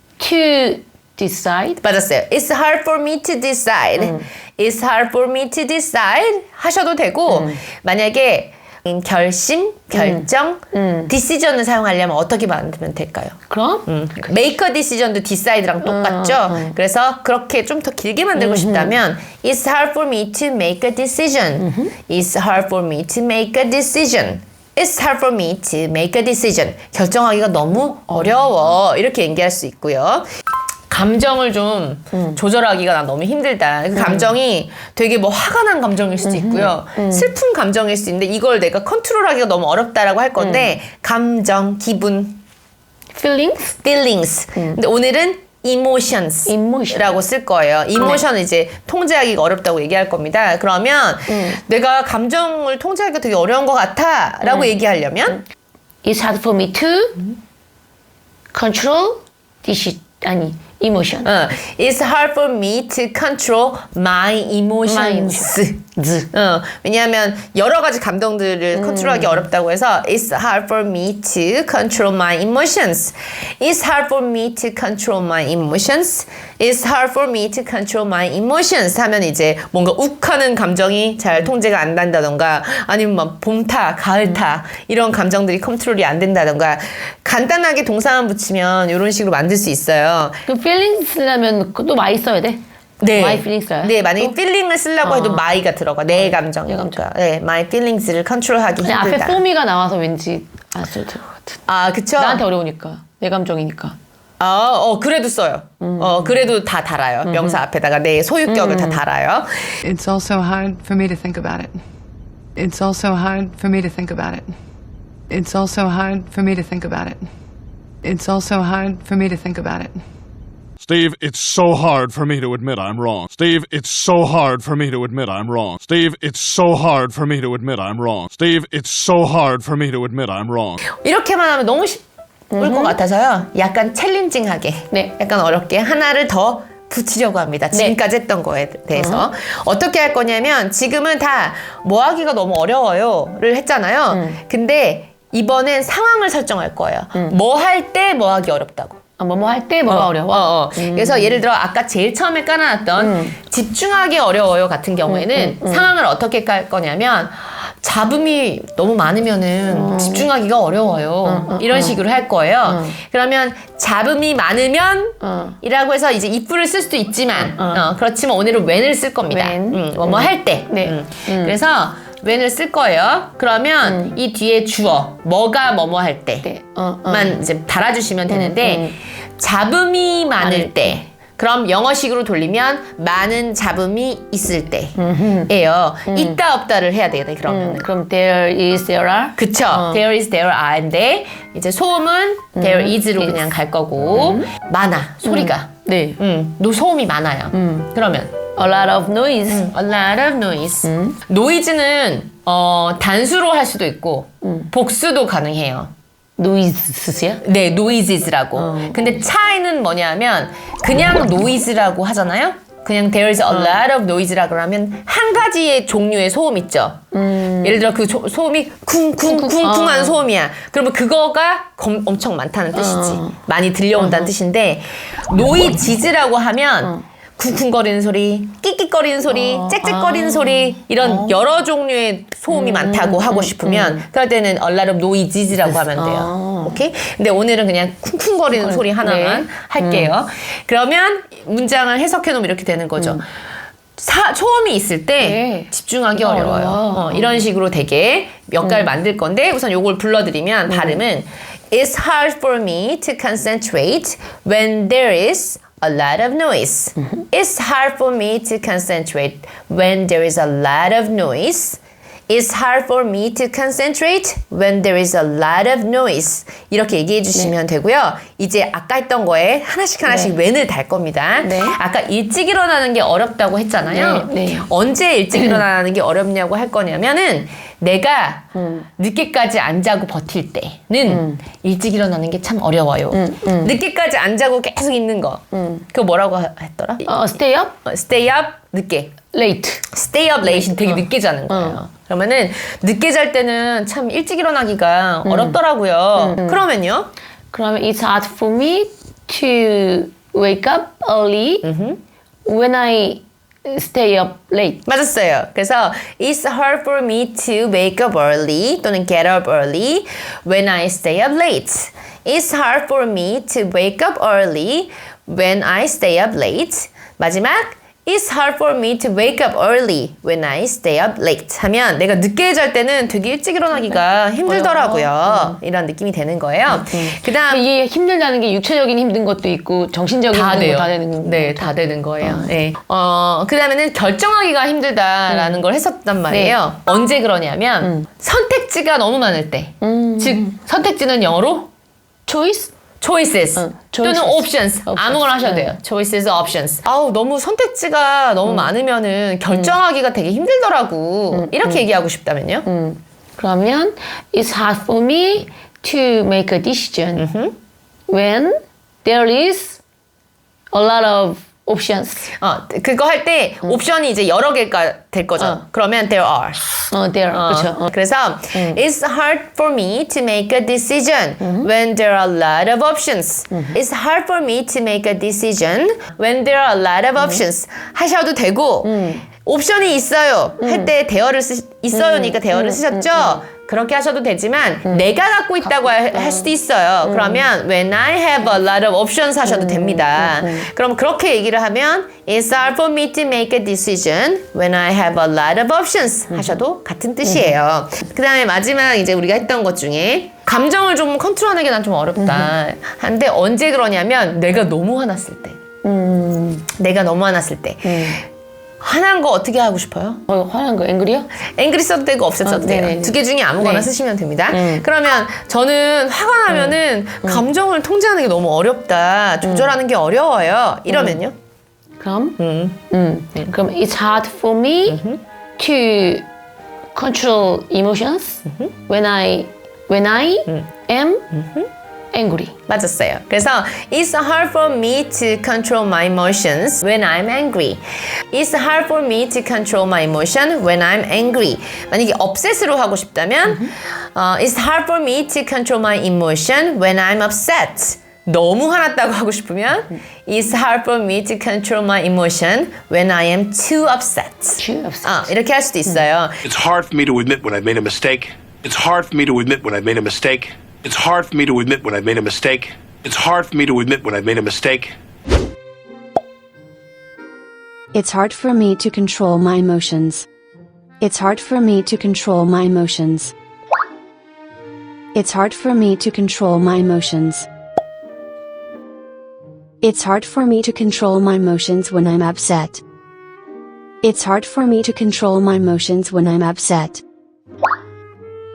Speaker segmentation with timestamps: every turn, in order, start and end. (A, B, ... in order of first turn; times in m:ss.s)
0:00.2-0:01.8 A
0:01.8-0:30.2 B
0:04.0-0:04.2 A
0:07.3-0:07.6 A
0:09.9-0:11.1 A
0:13.5-0:13.9 A
0:15.8-0:16.7 A
0:18.3-0:19.0 A
0:21.6-0:21.9 A
0:28.1-0:28.5 A
0:30.9-0:42.4 B
0:33.9-0:34.3 A
0:36.2-0:37.3 A
0:40.4-0:40.7 A
0:43.2-0:43.6 A
0:43.6-0:55.4 B
0:46.4-0:47.2 A
0:48.0-0:48.2 A
0:51.3-0:51.6 A
0:54.4-0:54.7 A
0:56.0-0:57.2 A
0:58.5-1:01.3 A
1:01.2-1:30.4 B
1:04.8-1:06.3 A
1:08.7-1:09.4 A
1:30.4-1:34.3 A
1:33.0-1:39.4 B
1:35.0-1:35.4 A
1:36.2-1:37.0 A
1:38.8-1:41.6 A
1:41.7-1:42.4 B
1:42.2-1:44.0 A
1:44.4-1:49.8 B
1:45.8-1:46.4 A
1:47.2-1:47.6 A
1:48.5-1:49.0 A
1:49.8-1:51.8 C
1:52.6-1:54.5 C
1:55.3-1:57.3 C
1:58.0-2:00.0 C
2:00.8-2:10.8 D
2:11.0-2:12.0 B
2:12.5-2:12.9 A
2:12.6-2:29.0 B
2:19.0-2:19.3 A
2:24.1-2:24.4 A
2:29.2-2:31.4 A
2:29.9-2:56.5 B
2:33.0-2:33.3 A
2:35.1-2:35.9 A
2:39.7-2:40.3 A
2:41.2-2:42.0 A
2:42.7-2:42.9 A
2:45.2-2:45.6 A
2:47.4-2:47.8 A
2:49.3-2:51.5 A
2:53.8-2:54.1 A
2:56.4-2:57.4 A
2:57.1-3:07.9 B
2:58.3-2:58.9 A
3:00.4-3:01.0 A
3:05.0-3:05.5 A
3:06.1-3:06.4 A
3:07.5-3:10.0 A
3:09.4-3:18.4 B
3:12.6-3:13.4 A
3:14.1-3:14.4 A
3:15.2-3:16.2 A
3:17.5-3:17.9 A
3:18.5-3:19.7 A
3:19.5-3:25.9 B
3:20.8-3:21.1 A
3:24.4-3:24.7 A
3:26.4-3:27.4 A
3:27.4-4:03.2 B
3:28.6-3:29.1 A
3:37.1-3:37.8 A
3:39.3-3:40.2 A
3:42.7-3:43.3 A
3:44.0-3:44.3 A
3:49.3-3:51.3 A
3:52.5-3:54.0 A
3:55.9-3:56.8 A
3:58.5-4:00.1 A
4:04.0-4:47.1 B
4:05.2-4:07.4 A
4:10.7-4:11.0 A
4:31.4-4:31.8 A
4:33.8-4:34.7 A
4:35.3-4:35.6 A
4:38.6-4:38.8 A
4:41.1-4:41.4 A
4:43.1-4:43.7 A
4:45.5-4:45.8 A
4:47.0-4:47.7 A
4:47.8-4:49.2 B
4:49.3-4:49.8 A
4:49.9-4:57.1 B
4:50.4-4:51.8 A
4:55.2-4:55.6 A
4:56.1-4:56.6 A
4:57.5-5:01.6 A
5:01.6-5:02.0 B
5:02.4-5:04.8 A
5:04.8-5:27.6 B
5:24.4-5:25.6 A
5:26.7-5:32.5 A
5:30.3-5:41.7 B
5:35.3-5:35.6 A
5:36.3-5:36.6 A
5:39.8-5:40.5 A
5:42.3-5:42.7 A
5:43.0-5:52.6 B
5:43.6-5:45.7 A
5:51.3-5:51.8 A
5:52.6-5:57.2 A
5:57.2-5:57.5 B
5:58.1-5:59.8 A
6:00.7-6:02.3 A
6:02.4-6:06.6 B
6:06.9-6:07.9 A
6:07.3-6:45.6 B
6:08.5-6:08.8 A
6:11.4-6:11.7 A
6:18.8-6:19.2 A
6:20.6-6:20.9 A
6:21.9-6:23.4 A
6:25.7-6:26.5 A
6:27.0-6:27.4 A
6:29.4-6:30.6 A
6:37.2-6:37.6 A
6:42.2-6:42.5 A
6:45.8-6:46.7 A
6:46.8-6:48.2 B
6:47.8-6:48.2 A
6:48.8-6:50.2 B
6:50.3-6:51.3 A
6:51.6-7:01.3 B
6:52.4-6:53.9 A
6:54.5-6:54.8 A
6:59.4-6:59.7 A
7:00.9-7:01.2 A
7:02.0-7:02.4 A
7:02.4-7:02.8 B
7:02.9-7:05.0 A
7:04.9-7:05.2 B
7:05.6-7:06.2 A
7:06.9-7:11.2 A
7:08.4-7:08.7 B
7:11.3-7:11.7 B
7:12.1-7:12.5 A
7:12.7-7:17.8 B
7:18.3-7:36.4 B
7:34.6-7:35.3 A
7:36.4-7:45.0 E
7:47.9-7:50.3 F
7:51.0-7:53.3 F
7:55.1-7:57.5 F
7:59.8-8:02.8 F
8:04.0-8:07.0 F